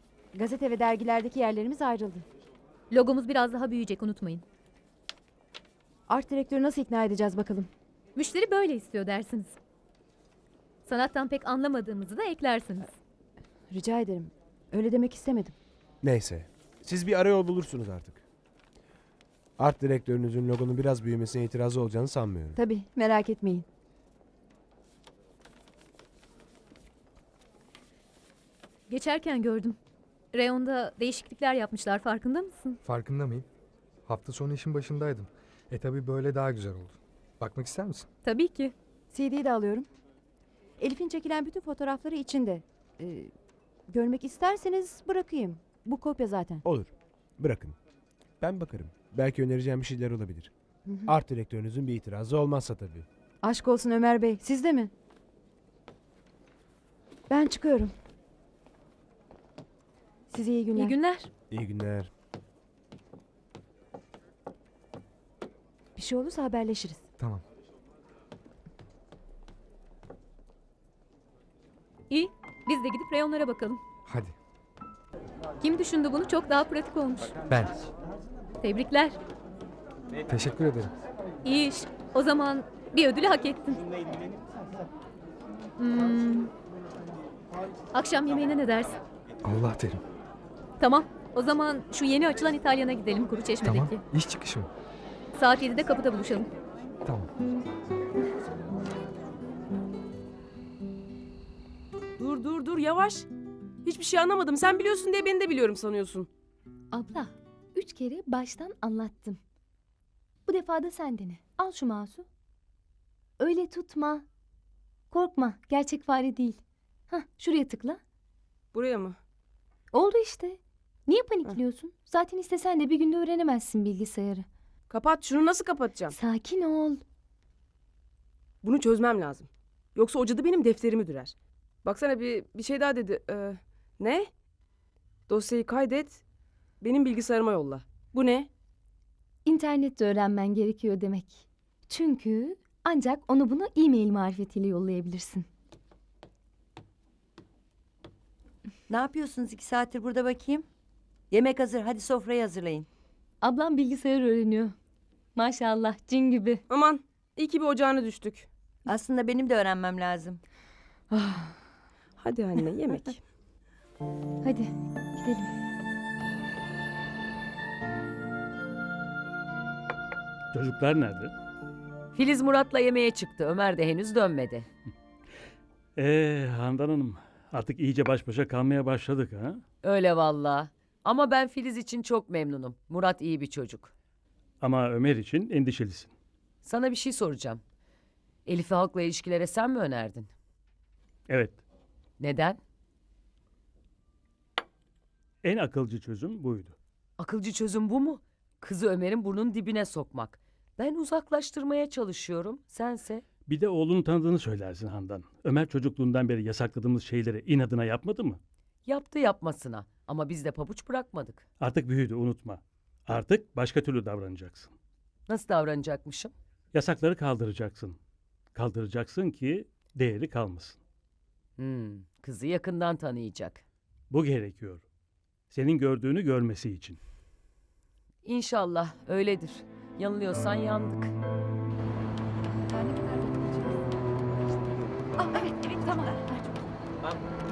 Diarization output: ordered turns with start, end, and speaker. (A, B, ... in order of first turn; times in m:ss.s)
0:00.3-0:02.2 A
0:02.9-0:04.4 B
0:06.1-0:07.7 A
0:08.2-0:09.6 B
0:10.9-0:12.9 B
0:13.7-0:15.6 A
0:16.0-0:18.2 C
0:19.6-0:22.6 C
0:22.6-0:23.7 A
0:28.9-0:29.8 B
0:30.3-0:32.8 B
0:32.8-0:33.5 D
0:34.1-0:38.1 D
0:38.2-0:38.7 B
0:39.1-0:39.9 A
0:40.8-0:43.3 A
0:43.9-0:46.6 A
0:46.6-0:47.8 C
0:48.4-0:50.5 C
0:50.9-0:51.1 A
0:51.1-0:53.1 C
0:53.4-0:54.9 A
0:57.3-0:58.0 A
1:00.3-1:01.0 A
1:00.8-1:01.3 B
1:01.5-1:02.1 C
1:06.0-1:07.0 A
1:12.1-1:13.8 B
1:14.1-1:14.3 D
1:15.6-1:17.4 B
1:17.5-1:17.9 D
1:18.6-1:19.2 B
1:20.3-1:20.9 D
1:21.4-1:23.8 B
1:25.8-1:26.5 B
1:27.9-1:29.0 B
1:29.4-1:30.0 D
1:30.8-1:34.0 B
1:33.6-1:34.7 D
1:35.3-1:36.5 B
1:37.0-1:37.3 D
1:42.2-1:43.3 E
1:43.8-1:46.3 E
1:46.9-1:49.4 F
1:50.5-1:52.3 F
1:53.4-1:54.2 F
1:55.1-1:58.0 F
1:58.7-1:59.2 E
1:59.9-2:04.5 F
2:04.9-2:06.2 E
2:06.1-2:07.0 F
2:08.6-2:14.3 E
2:15.3-2:16.2 E
2:16.8-2:18.5 E
2:19.5-2:25.5 F
2:28.9-2:30.7 G
2:31.3-2:32.9 G
2:33.4-2:34.7 F
2:35.4-2:36.6 F
2:36.7-2:38.5 E
2:38.9-2:40.4 G
2:42.2-2:43.2 E
2:44.4-2:45.5 F
2:50.5-2:51.3 H
2:52.2-2:54.7 I
2:56.0-2:59.6 H
2:59.8-3:03.9 I
3:04.6-3:06.1 H
3:06.6-3:07.6 I
3:08.5-3:10.3 I
3:11.3-3:11.6 H
3:12.2-3:12.6 I
3:15.4-3:16.8 H
3:17.2-3:23.2 I
3:23.5-3:28.4 H
3:28.9-3:31.4 I
3:31.6-3:34.7 H
3:35.3-3:36.3 I
3:36.7-3:38.0 H
3:38.5-3:40.8 H
3:41.6-3:43.6 I
3:44.1-3:44.8 H
3:45.5-3:47.0 H
3:48.2-3:51.1 I
3:52.7-3:53.8 A
3:55.5-3:56.2 A